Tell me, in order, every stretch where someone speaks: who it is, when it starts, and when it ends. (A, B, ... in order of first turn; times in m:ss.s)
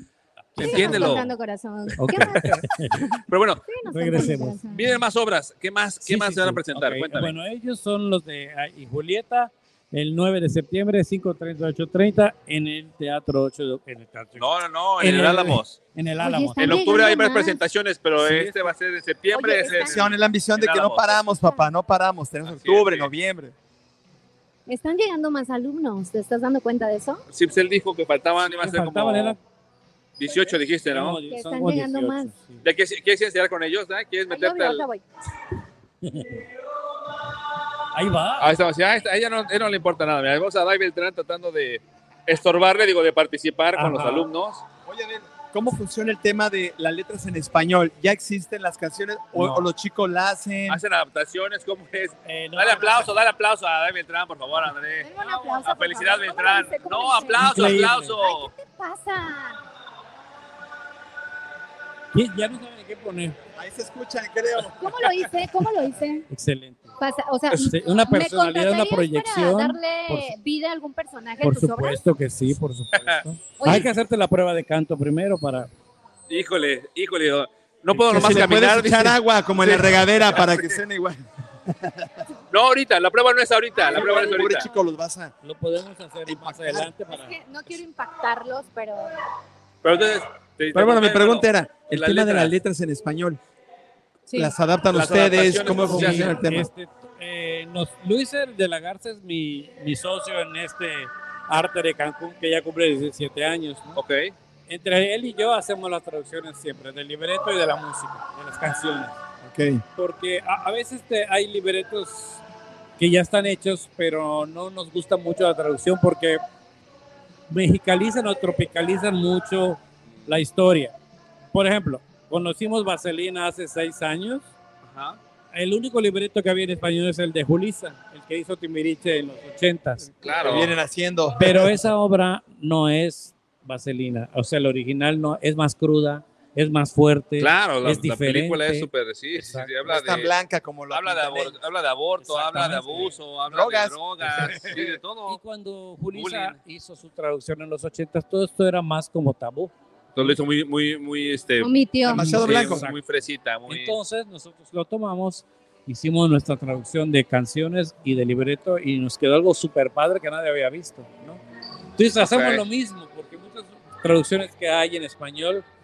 0:00.6-0:01.2 A
0:00.6-0:01.3 B
0:00.6-0:05.0 C
0:02.0-0:03.1 A
0:03.3-0:03.6 B
0:03.9-0:04.6 A
0:04.2-0:07.3 B
0:06.0-0:17.1 A
0:14.4-0:15.8 B
0:16.2-0:17.6 C
0:16.6-0:21.0 B
0:18.2-0:18.7 A
0:19.3-0:20.1 C
0:19.7-0:23.5 D
0:21.0-0:21.6 C
0:22.4-0:23.1 B
0:24.7-0:27.2 C
0:27.3-0:29.4 B
0:28.4-0:29.4 A
0:30.2-0:31.2 B
0:30.9-0:32.6 A
0:31.3-0:32.3 C
0:32.6-0:34.8 B
0:34.3-0:35.0 C
0:36.0-0:36.4 A
0:37.9-0:38.5 A
0:38.4-0:44.6 B
0:43.7-0:44.3 A
0:44.8-0:50.8 D
0:49.3-0:49.7 A
0:50.7-0:58.5 B
0:52.2-0:53.1 A
0:55.0-0:59.6 C
0:57.3-0:58.1 A
1:02.1-1:03.4 A
1:03.6-1:05.0 D
1:04.8-1:06.3 C
1:06.3-1:06.9 A
1:07.0-1:12.0 C
1:07.6-1:10.3 A
1:11.4-1:15.7 A
1:12.9-1:13.2 B
1:13.6-1:13.9 C
1:16.3-1:20.8 B
1:17.9-1:18.2 A
1:18.0-1:22.2 D
1:22.5-1:24.6 B
1:23.8-1:24.8 C
1:23.9-1:25.3 D
1:25.4-1:27.3 A
1:26.2-1:26.9 D
1:27.1-1:29.1 C
1:29.8-1:32.5 B
1:30.7-1:33.4 D
1:34.3-1:34.5 C
1:34.3-1:36.7 D
1:34.9-1:36.4 B
1:35.8-1:44.0 A
1:44.0-1:44.3 B
1:44.7-1:49.2 A
1:49.4-1:49.8 D
1:50.0-1:52.4 A
1:53.0-1:56.4 A
1:57.5-2:00.9 A
2:01.5-2:04.5 A
2:04.8-2:05.2 B
2:05.5-2:10.1 A
2:10.2-2:10.7 B
2:10.3-2:11.7 D
2:11.4-2:19.7 A
2:17.4-2:20.3 B
2:19.8-2:21.5 D
2:20.9-2:25.4 B
2:22.2-2:23.2 A
2:23.5-2:24.0 D
2:24.3-2:24.7 A
2:25.3-2:30.4 A
2:26.1-2:26.5 B
2:30.2-2:33.9 B
2:31.6-2:32.4 C
2:32.0-2:32.9 D
2:32.2-2:33.0 A
2:33.7-2:41.4 A
2:42.0-2:45.6 A
2:42.2-2:42.6 B